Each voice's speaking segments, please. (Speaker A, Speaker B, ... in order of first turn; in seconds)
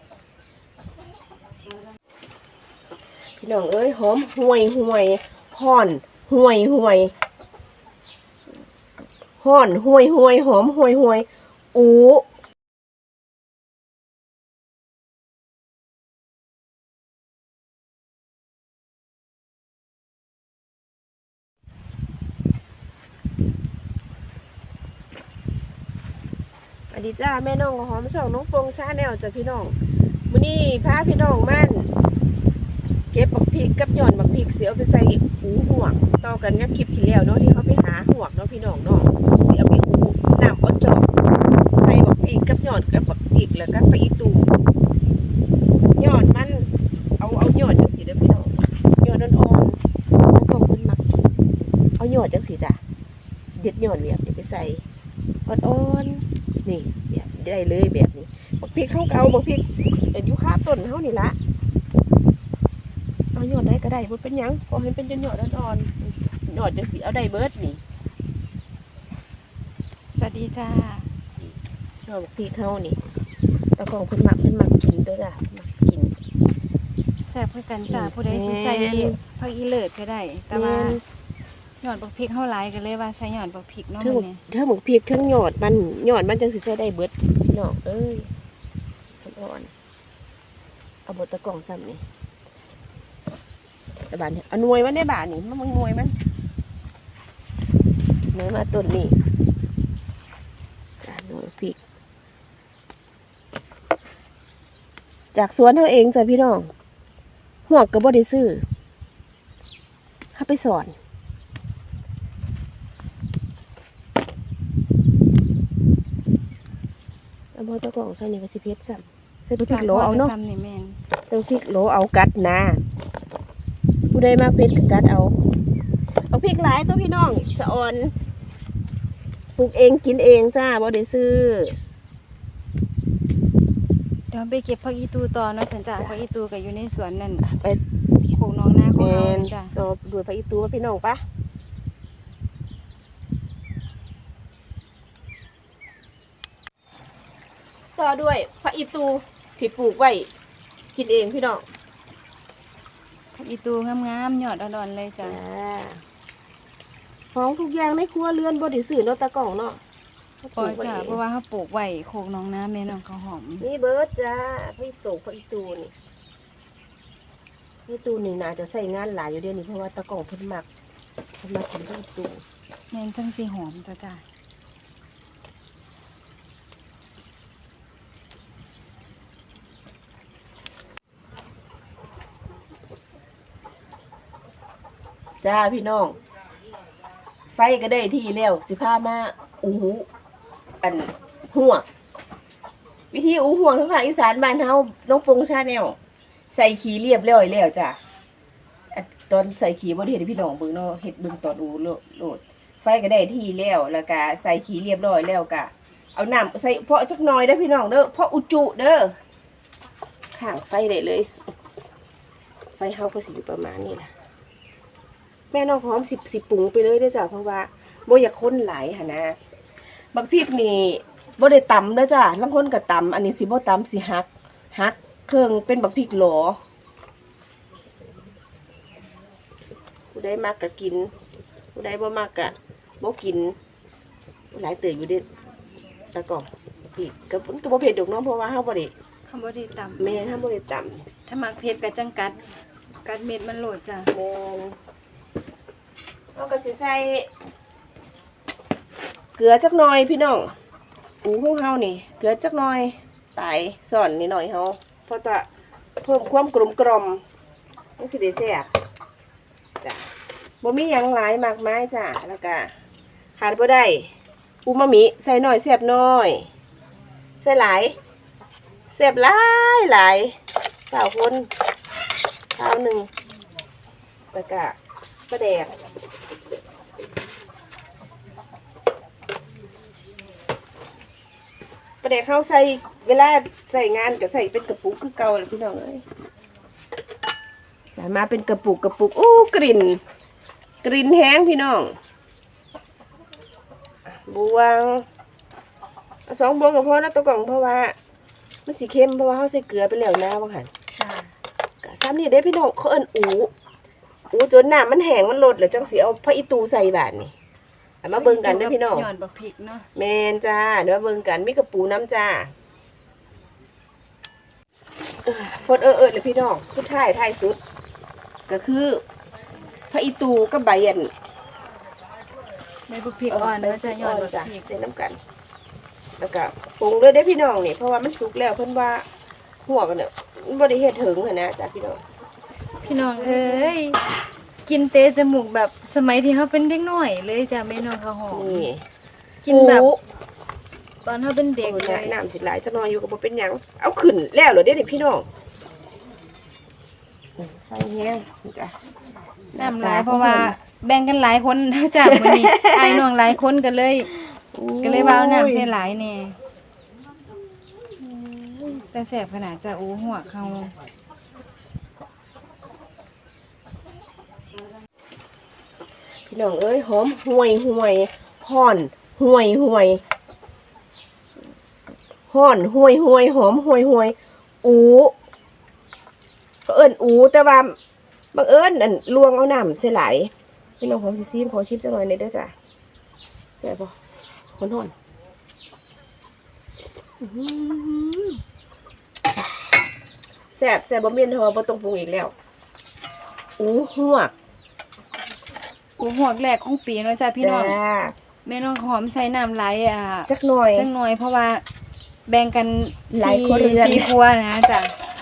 Speaker A: 3.4-7.1, 9.4-12.2, 26.9-29.7, 30.3-31.9, 33.1-41.1, 41.7-44.6, 46.0-51.0, 52.0-52.8, 53.5-54.8, 55.5-61.4, 63.3-67.8, 72.0-73.0, 73.8-76.2, 77.9-79.2, 80.5-81.0, 84.0-88.3, 89.2-89.7, 91.0-92.0, 94.1-96.1, 98.3-99.2, 101.0-101.8, 105.3-106.7, 107.7-108.6, 110.3-110.9, 117.5-120.3, 121.3-122.8, 124.1-125.3, 126.3-128.1, 129.6-131.8, 137.4-137.8, 138.9-141.2, 147.9-150.3, 150.9-151.7, 155.2-156.0, 157.3-159.8, 160.4-161.2, 163.6-165.9, 167.9-170.7, 171.4-172.4, 185.4-186.2, 187.5-190.1, 190.8-191.8, 193.1-196.0, 196.5-198.0, 198.9-209.2, 210.3-211.4, 212.8-214.1, 215.5-219.4, 220.1-226.6, 230.1-231.1, 231.7-233.6, 234.5-235.2, 236.1-238.9, 240.0-241.1, 244.1-244.8, 246.3-247.3, 249.3-250.5, 251.2-255.5, 256.0-257.2, 258.0-258.7, 259.8-260.1, 260.6-262.7, 263.4-264.1, 264.6-266.5, 267.4-268.0, 268.9-271.5, 272.5-273.1, 274.3-274.8, 275.3-275.7, 282.0-286.0, 287.9-290.0, 290.8-292.0, 294.1-295.1, 296.3-297.9, 298.6-300.7, 301.8-303.5, 304.3-307.3, 308.0-309.1, 309.9-312.5, 315.2-317.6, 318.5-319.0, 319.9-321.1, 323.3-325.2, 326.2-329.1, 329.6-332.0, 333.2-333.8, 338.3-338.8, 339.4-340.0, 341.6-345.3, 347.4-348.8, 349.5-350.6, 352.0-353.1, 354.3-355.7, 357.9-358.8, 366.2-370.0, 372.3-375.1, 376.6-377.8, 378.3-382.5, 383.6-383.9, 384.6-384.9, 387.2-388.4, 390.5-392.3, 393.6-394.3, 397.4-398.1, 400.3-400.9, 403.1-404.1
Speaker B: 70.1-71.1, 77.2-81.0, 81.8-84.4, 119.7-121.0, 134.3-137.4, 138.3-139.8, 153.3-155.4, 160.6-163.6, 172.9-174.2, 239.3-240.3, 241.2-242.4, 243.0-244.1, 301.0-301.3, 308.1-309.9, 322.9-324.7, 332.8-334.0, 334.6-338.7, 339.4-339.9, 341.0-342.2, 349.6-354.1, 354.8-356.4, 358.9-360.7, 396.0-397.8, 398.4-401.6, 402.3-405.0